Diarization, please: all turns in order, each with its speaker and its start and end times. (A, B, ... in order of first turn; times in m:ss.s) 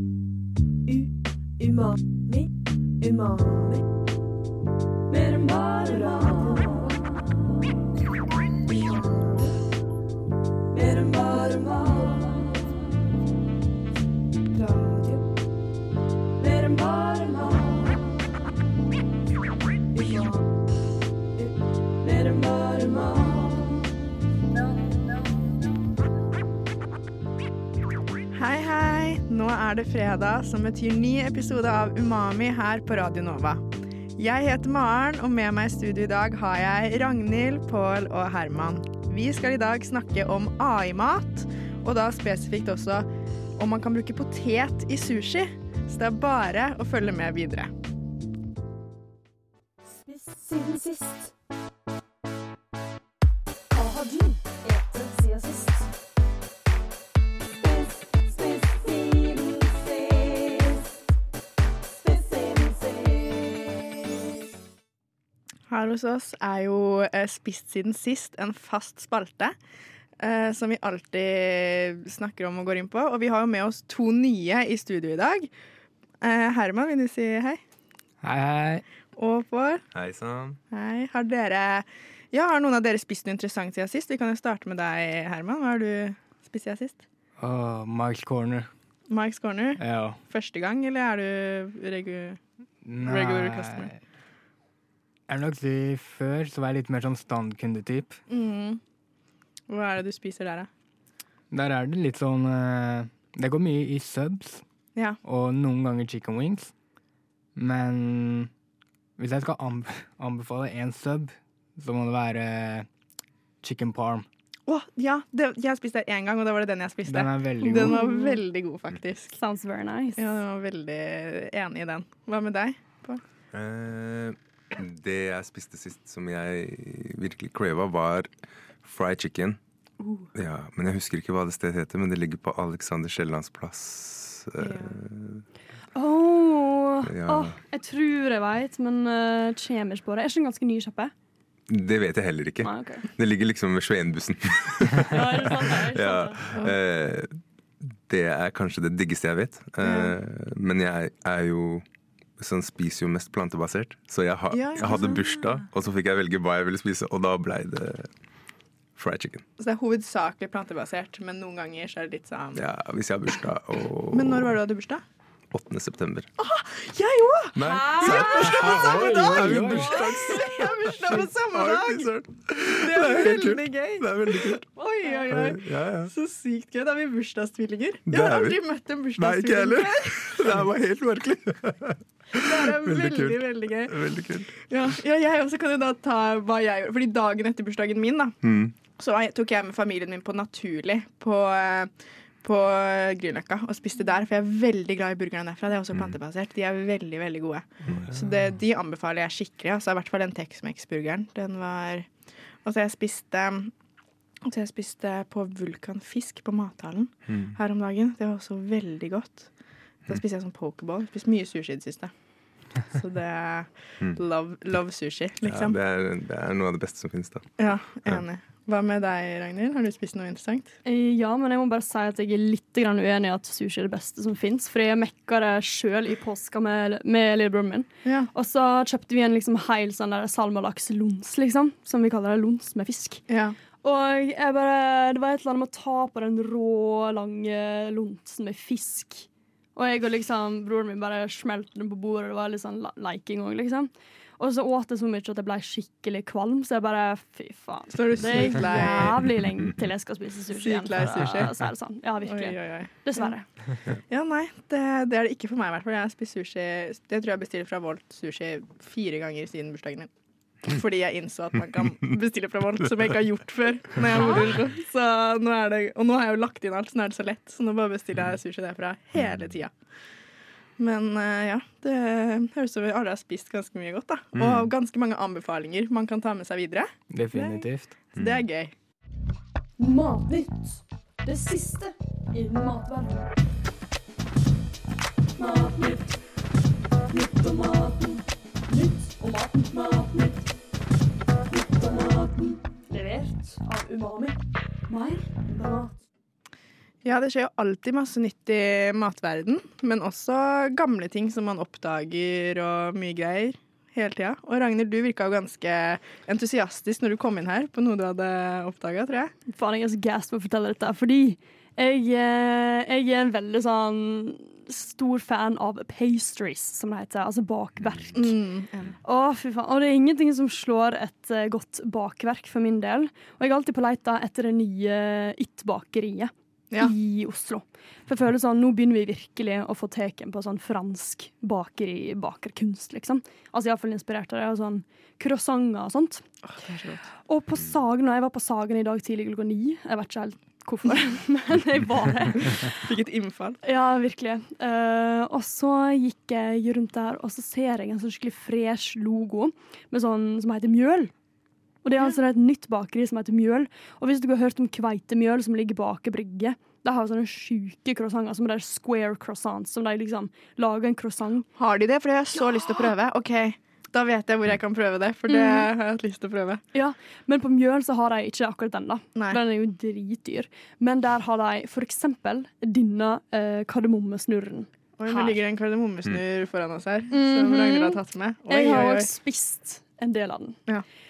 0:00.9-0:02.5 A
0:03.0-0:03.8 A
0:05.1-0:07.2 B
0:05.8-0:07.0 A
0:08.7-0:09.5 A
0:10.7-0:12.8 B
0:14.5-0:15.2 A
0:16.4-0:18.0 B
0:19.9-0:20.5 A
0:22.0-0:23.6 B
0:28.3-0:47.7 C
0:50.8-0:51.1 B
0:53.8-0:54.3 B
0:54.5-0:55.4 A
0:55.0-0:55.5 B
0:58.2-0:59.6 A
1:02.1-1:02.4 A
1:05.7-1:09.6 C
1:10.2-1:15.5 C
1:16.2-1:17.6 C
1:18.2-1:18.8 D
1:19.2-1:19.8 C
1:19.9-1:20.6 E
1:20.7-1:27.0 C
1:27.4-1:28.7 D
1:29.1-1:32.4 C
1:29.8-1:30.2 D
1:32.8-1:34.0 D
1:33.0-1:33.9 C
1:35.3-1:38.2 D
1:38.3-1:38.8 C
1:39.7-1:40.7 C
1:41.5-1:44.6 D
1:45.2-1:46.7 D
1:47.6-1:48.5 D
1:49.2-1:52.9 D
1:53.6-1:54.3 D
1:54.7-1:59.4 C
1:57.1-1:58.0 D
1:57.6-1:58.4 B
1:59.4-2:00.3 B
2:00.2-2:03.2 C
2:03.5-2:09.6 E
2:10.4-2:15.4 E
2:14.6-2:15.0 C
2:16.0-2:21.1 B
2:17.0-2:17.6 E
2:21.7-2:31.8 E
2:22.6-2:23.1 B
2:25.0-2:26.5 B
2:29.8-2:30.2 C
2:32.4-2:38.1 E
2:34.5-2:35.6 C
2:39.0-2:39.4 E
2:39.6-2:42.6 C
2:42.6-2:44.6 E
2:44.1-2:45.0 C
2:45.5-2:46.3 E
2:46.4-3:00.6 C
2:47.6-2:54.6 E
2:48.4-2:50.0 D
2:55.3-2:56.1 E
2:58.1-2:58.6 E
2:59.2-3:04.5 E
3:02.3-3:04.0 C
3:04.6-3:08.4 C
3:08.4-3:08.7 E
3:08.9-3:22.1 C
3:17.9-3:18.6 E
3:22.6-3:23.7 C
3:24.4-3:29.5 C
3:27.3-3:27.5 E
3:30.1-3:32.1 C
3:32.8-3:35.8 C
3:35.4-3:38.2 E
3:37.6-3:40.7 C
3:40.8-3:53.2 B
3:48.0-3:48.3 C
3:53.3-3:53.6 C
3:53.8-4:13.5 B
4:07.9-4:09.2 C
4:10.5-4:11.5 C
4:12.2-4:20.1 C
4:20.6-4:29.7 C
4:24.1-4:24.5 B
4:30.8-4:38.7 C
4:34.4-4:34.7 E
4:37.1-4:37.9 D
4:38.2-4:38.4 E
4:39.8-4:43.2 B
4:45.4-4:46.2 B
4:47.1-4:50.5 B
4:51.5-4:56.0 B
4:57.0-5:09.3 C
5:09.5-5:18.4 B
5:18.1-5:19.0 C
5:19.0-5:36.2 B
5:36.5-5:37.1 C
5:37.3-5:42.9 B
5:42.8-5:43.6 C
5:43.6-5:51.1 B
5:51.8-6:01.5 B
6:01.6-6:06.6 C
6:02.4-6:02.9 B
6:05.3-6:05.7 B
6:06.7-6:15.4 B
6:15.0-6:19.1 C
6:17.1-6:20.6 B